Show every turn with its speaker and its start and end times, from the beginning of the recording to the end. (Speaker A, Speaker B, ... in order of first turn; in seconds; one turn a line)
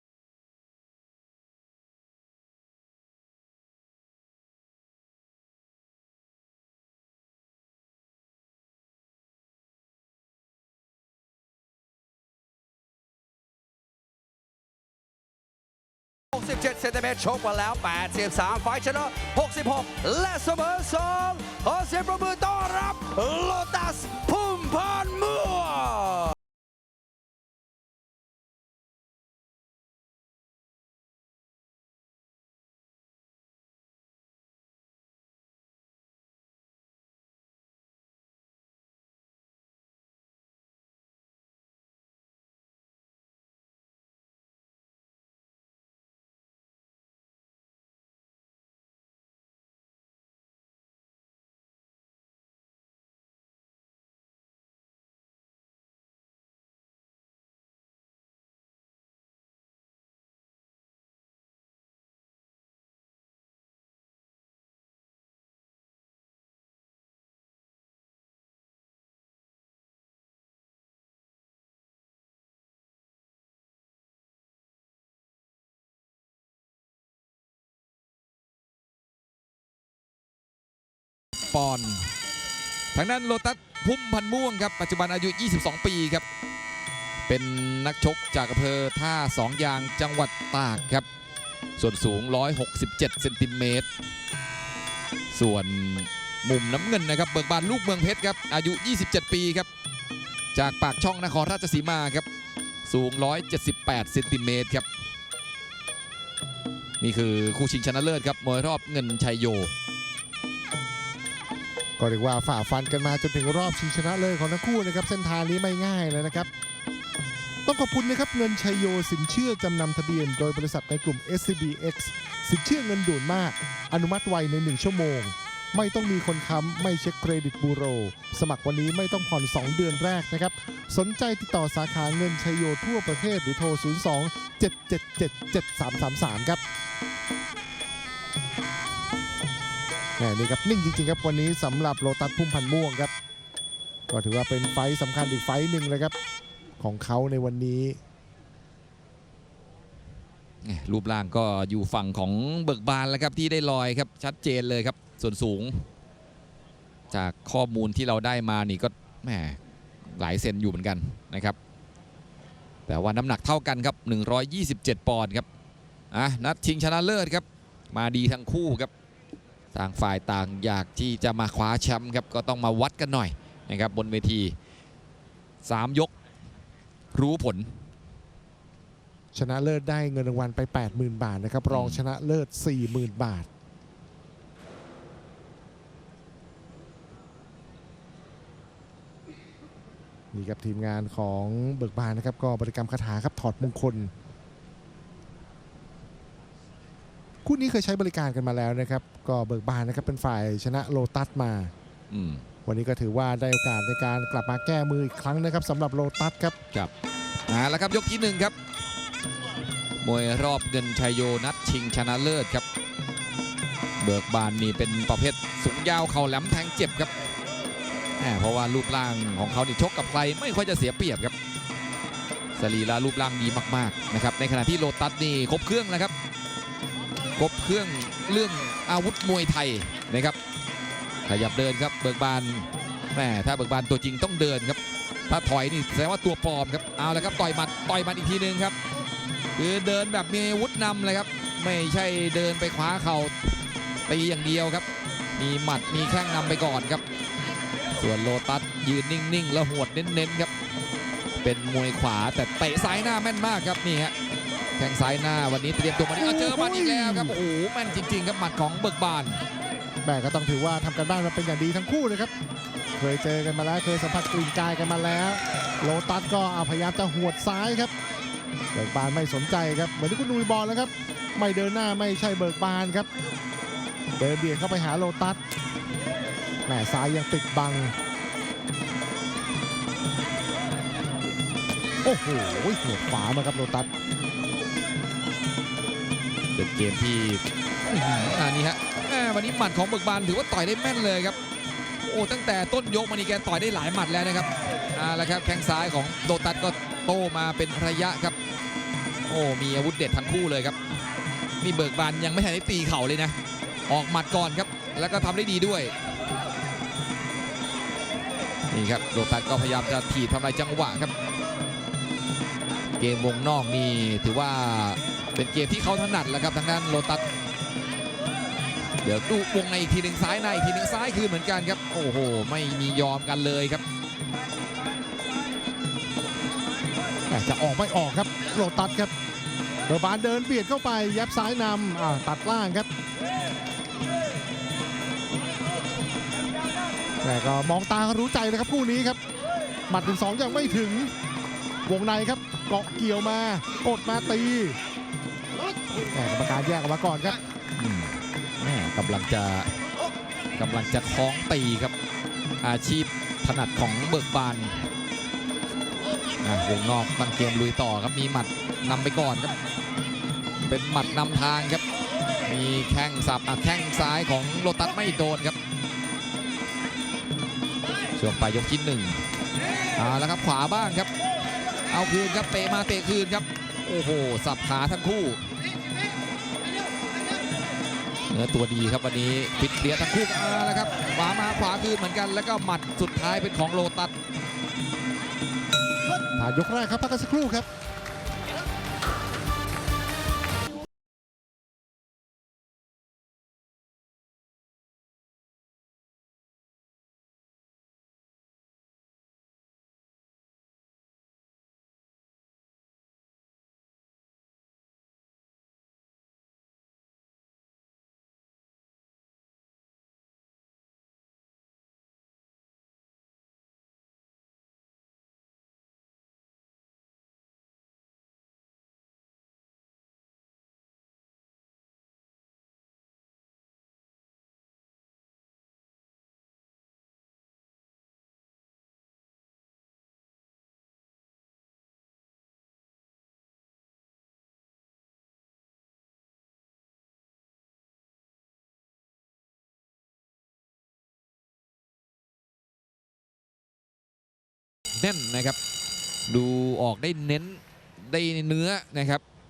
Speaker A: 16.3-26.4
Speaker B: 81.5-82.1
Speaker B: 82.9-86.2
Speaker B: 87.3-91.1
Speaker B: 91.8-93.9
Speaker B: 95.3-99.7
Speaker B: 100.5-102.3
Speaker B: 102.8-104.9
Speaker B: 107.0-109.7
Speaker C: 112.0-116.5
Speaker C: 117.7-136.6
Speaker C: 140.2-143.1
Speaker C: 144.1-146.2
Speaker C: 146.8-148.0
Speaker B: 150.6-155.8
Speaker B: 157.1-159.6
Speaker B: 160.2-161.6
Speaker B: 162.9-165.5
Speaker B: 166.1-168.9
Speaker B: 169.7-174.6
Speaker B: 175.7-176.1
Speaker B: 177.1-177.7
Speaker C: 179.3-183.5
Speaker B: 181.7-182.0
Speaker C: 190.3-194.1
Speaker C: 197.4-201.7
Speaker B: 202.1-202.4
Speaker C: 202.7-206.6
Speaker B: 207.5-208.5
Speaker B: 210.0-212.7
Speaker B: 214.0-217.1
Speaker B: 218.2-221.3
Speaker B: 222.6-226.1
Speaker B: 227.4-230.4
Speaker B: 231.2-238.8
Speaker B: 239.6-243.3
Speaker B: 244.1-244.9
Speaker B: 245.4-247.0
Speaker B: 247.9-250.5
Speaker B: 251.4-254.1
Speaker B: 254.8-259.4
Speaker C: 256.2-257.4
Speaker C: 260.0-262.3
Speaker C: 263.0-267.9
Speaker C: 268.7-273.1
Speaker C: 274.2-275.4
Speaker C: 276.7-277.9
Speaker C: 282.0-283.9
Speaker B: 286.6-291.4
Speaker B: 292.1-298.4
Speaker B: 299.3-300.8
Speaker B: 301.6-303.4
Speaker B: 303.9-305.9
Speaker B: 308.7-311.1
Speaker B: 313.0-317.2
Speaker B: 319.0-323.8
Speaker C: 327.3-329.1
Speaker C: 329.9-332.9
Speaker C: 337.2-339.2
Speaker C: 339.9-341.1
Speaker C: 341.9-344.8
Speaker C: 346.1-347.4
Speaker B: 347.8-349.7
Speaker B: 350.6-351.9
Speaker B: 352.6-354.8
Speaker B: 356.4-359.5
Speaker B: 360.6-361.8
Speaker B: 362.4-365.6
Speaker B: 368.1-369.2
Speaker B: 370.0-371.1
Speaker B: 371.9-375.5
Speaker B: 378.3-384.1
Speaker C: 386.4-387.7
Speaker B: 445.0-445.6
Speaker B: 446.3-449.2